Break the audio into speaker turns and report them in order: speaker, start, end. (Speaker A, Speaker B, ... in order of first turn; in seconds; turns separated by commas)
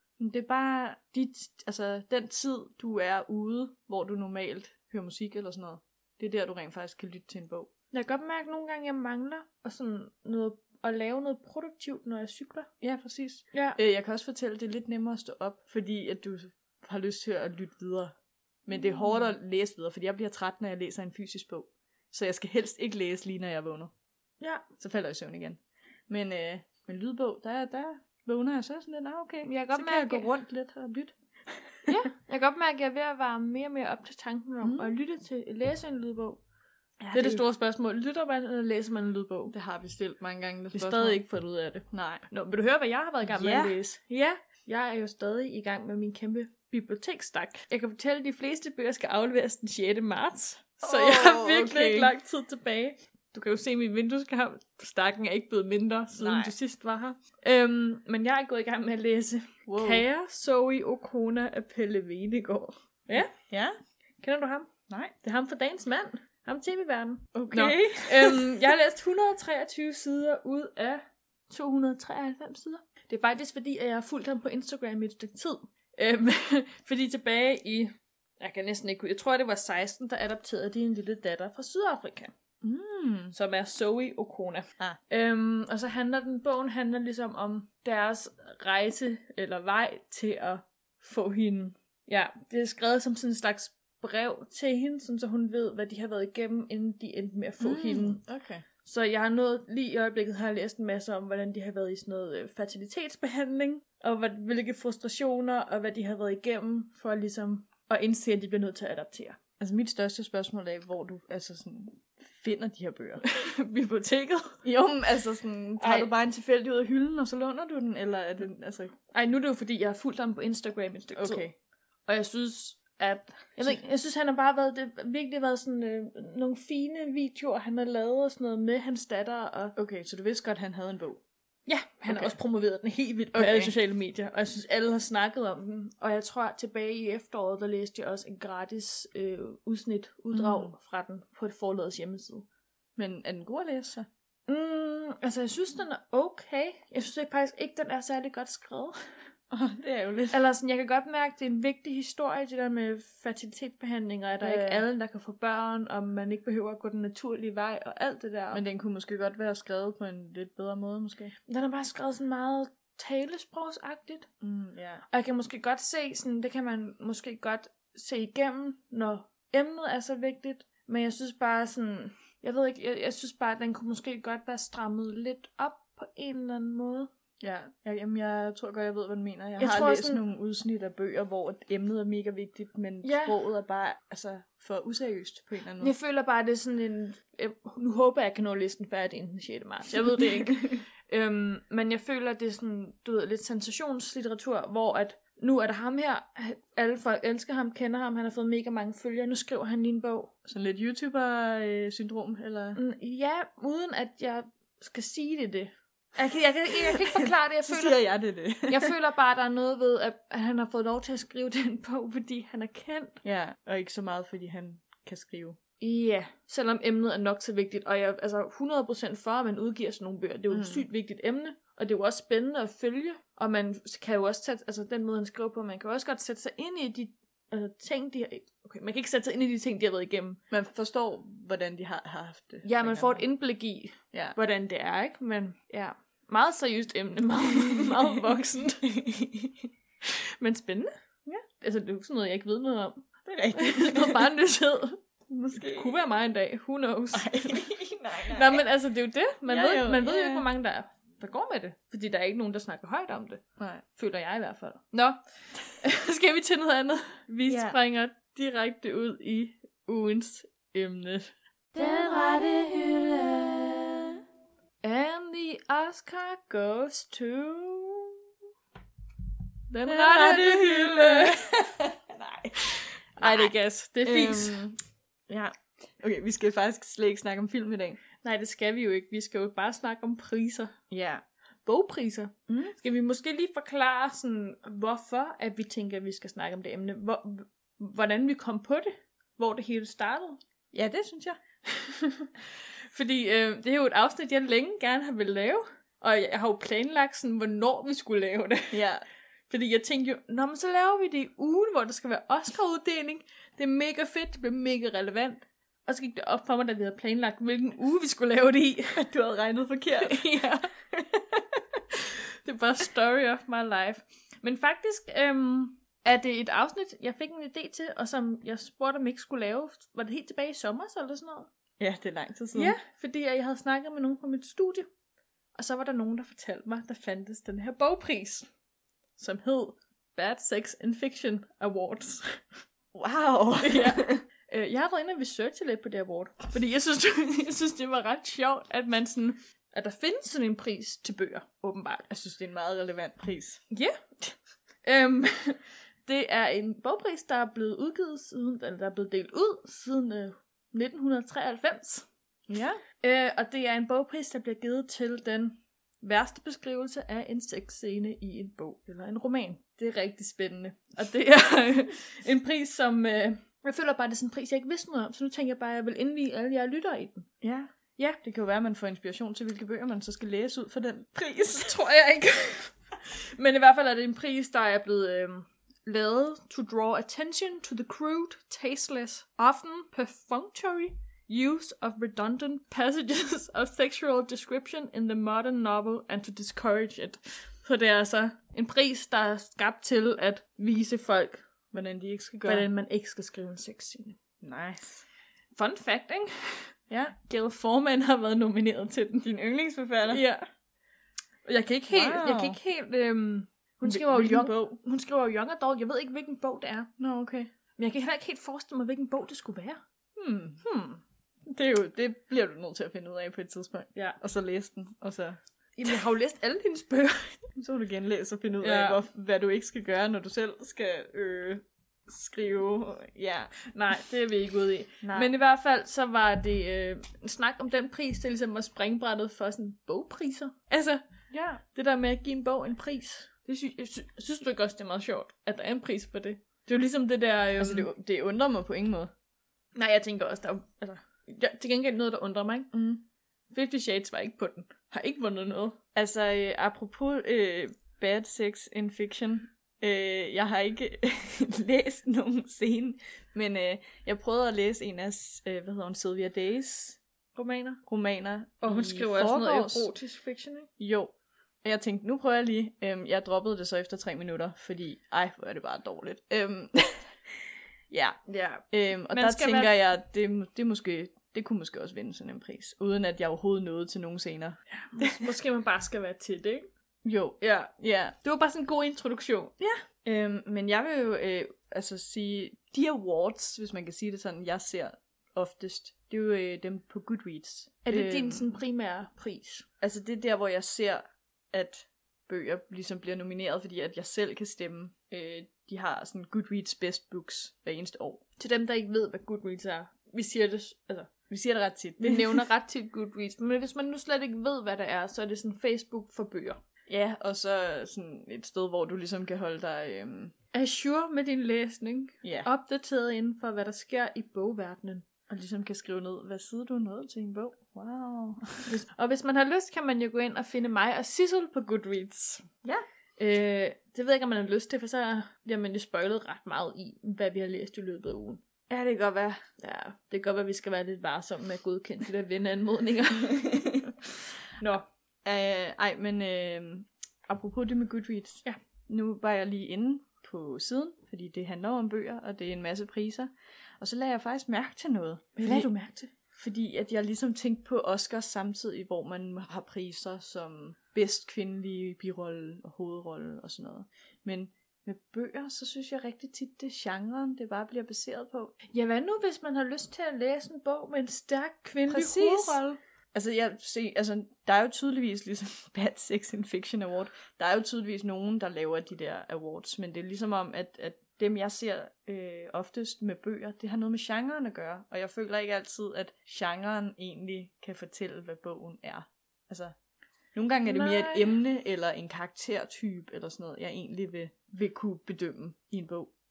Speaker A: 0.2-7.7, Speaker B: 7.9-12.7, Speaker A: 12.8-23.9, Speaker B: 13.5-13.8, Speaker B: 18.8-19.1, Speaker B: 24.4-24.6, Speaker A: 24.8-31.9, Speaker B: 29.4-30.4, Speaker B: 31.9-36.4, Speaker A: 34.6-34.9, Speaker A: 37.0-37.4, Speaker B: 37.1-39.5, Speaker A: 39.5-41.2, Speaker B: 40.7-63.3, Speaker A: 41.9-42.2, Speaker A: 43.2-43.8, Speaker A: 50.8-52.1, Speaker A: 56.2-56.5, Speaker A: 59.6-60.0, Speaker A: 63.1-63.8, Speaker B: 64.2-64.7, Speaker A: 64.9-65.1, Speaker B: 65.2-82.3, Speaker A: 67.3-68.6, Speaker A: 82.6-83.3, Speaker B: 83.3-98.2, Speaker A: 97.6-98.6, Speaker B: 98.8-109.4, Speaker A: 109.6-113.2, Speaker B: 113.2-114.6, Speaker A: 114.6-118.9, Speaker B: 115.8-116.1, Speaker B: 119.1-121.4, Speaker A: 121.1-121.5, Speaker B: 122.1-129.8, Speaker A: 129.8-131.2, Speaker B: 131.7-142.4, Speaker A: 132.1-132.4, Speaker A: 133.3-133.7, Speaker A: 140.3-140.7, Speaker A: 142.9-144.1, Speaker B: 144.5-148.9, Speaker A: 149.5-150.4, Speaker B: 150.3-158.6, Speaker A: 154.4-154.8, Speaker A: 158.5-161.3, Speaker B: 161.5-164.3, Speaker A: 164.4-165.0, Speaker B: 165.1-177.1, Speaker A: 177.4-185.9, Speaker B: 179.6-180.2, Speaker B: 183.0-183.4, Speaker B: 185.8-200.3, Speaker A: 189.9-190.8, Speaker A: 200.4-202.8, Speaker B: 202.8-208.0, Speaker A: 206.7-208.9, Speaker B: 208.7-213.2, Speaker A: 213.2-215.6, Speaker B: 215.8-230.4, Speaker A: 220.5-220.9, Speaker A: 230.5-233.2, Speaker B: 232.6-238.9, Speaker A: 237.7-238.1, Speaker A: 238.9-239.5, Speaker B: 240.0-240.9, Speaker B: 241.6-247.6, Speaker A: 243.2-244.2, Speaker A: 245.3-246.0, Speaker A: 247.1-248.6, Speaker B: 248.3-253.4, Speaker A: 249.4-250.4, Speaker A: 253.6-253.8, Speaker B: 253.9-255.2, Speaker B: 255.7-261.3, Speaker A: 257.5-257.8, Speaker C: 261.8-264.1, Speaker B: 264.8-268.1, Speaker B: 269.7-271.5, Speaker A: 269.9-273.5, Speaker B: 273.2-274.6, Speaker A: 274.0-274.8, Speaker A: 275.3-278.0, Speaker B: 278.2-280.8, Speaker A: 280.9-281.2, Speaker B: 281.6-290.4, Speaker A: 282.5-282.8, Speaker A: 290.7-291.4, Speaker B: 291.6-298.8, Speaker A: 298.7-299.0, Speaker B: 299.5-309.0, Speaker A: 308.9-310.4, Speaker B: 309.9-310.7, Speaker A: 310.9-311.8, Speaker B: 312.1-321.5, Speaker A: 321.8-322.8, Speaker B: 322.5-324.9, Speaker B: 325.5-328.5, Speaker B: 329.2-332.4, Speaker A: 332.9-334.2, Speaker B: 333.6-342.1, Speaker A: 342.1-343.6, Speaker B: 343.7-352.1, Speaker A: 352.5-352.8, Speaker B: 353.0-367.3, Speaker A: 367.4-371.8, Speaker B: 371.4-391.4, Speaker A: 391.7-392.7, Speaker B: 392.4-394.2, Speaker A: 394.4-395.0, Speaker B: 395.6-399.3, Speaker A: 396.9-397.1, Speaker A: 399.2-400.2, Speaker B: 400.0-400.4, Speaker B: 401.4-406.9, Speaker A: 401.9-402.6, Speaker A: 403.8-404.8, Speaker A: 407.0-407.5, Speaker B: 407.8-409.8, Speaker A: 410.1-410.6, Speaker B: 410.6-411.0, Speaker A: 411.4-415.4, Speaker B: 415.8-417.4, Speaker A: 417.5-423.5, Speaker B: 418.6-419.0, Speaker B: 423.7-431.0, Speaker A: 425.0-425.3, Speaker A: 431.3-431.6, Speaker B: 431.7-437.9, Speaker A: 437.6-439.1, Speaker B: 439.8-442.7, Speaker A: 442.7-443.0, Speaker B: 443.5-445.8, Speaker A: 445.9-457.0, Speaker B: 457.4-457.8, Speaker A: 457.9-459.9, Speaker B: 458.6-460.7, Speaker A: 460.8-461.1, Speaker A: 461.6-467.3, Speaker A: 467.9-475.3, Speaker B: 468.3-469.7, Speaker B: 474.7-476.7, Speaker A: 477.0-478.1, Speaker B: 477.4-477.7, Speaker B: 478.2-479.5, Speaker A: 479.6-488.4, Speaker B: 487.9-489.7, Speaker A: 489.8-498.2, Speaker B: 498.4-501.1, Speaker A: 501.3-502.5, Speaker B: 502.0-506.6, Speaker A: 506.9-510.3, Speaker B: 510.5-515.0, Speaker A: 512.2-512.5, Speaker A: 515.3-518.7, Speaker B: 518.7-522.5, Speaker B: 523.2-528.4, Speaker A: 528.7-529.4, Speaker B: 529.6-533.7, Speaker A: 533.5-533.9, Speaker B: 534.6-534.9, Speaker A: 535.2-545.7, Speaker B: 545.4-546.1, Speaker A: 546.3-558.5, Speaker B: 558.7-562.6, Speaker A: 561.9-579.8, Speaker A: 580.3-586.1, Speaker B: 580.6-581.4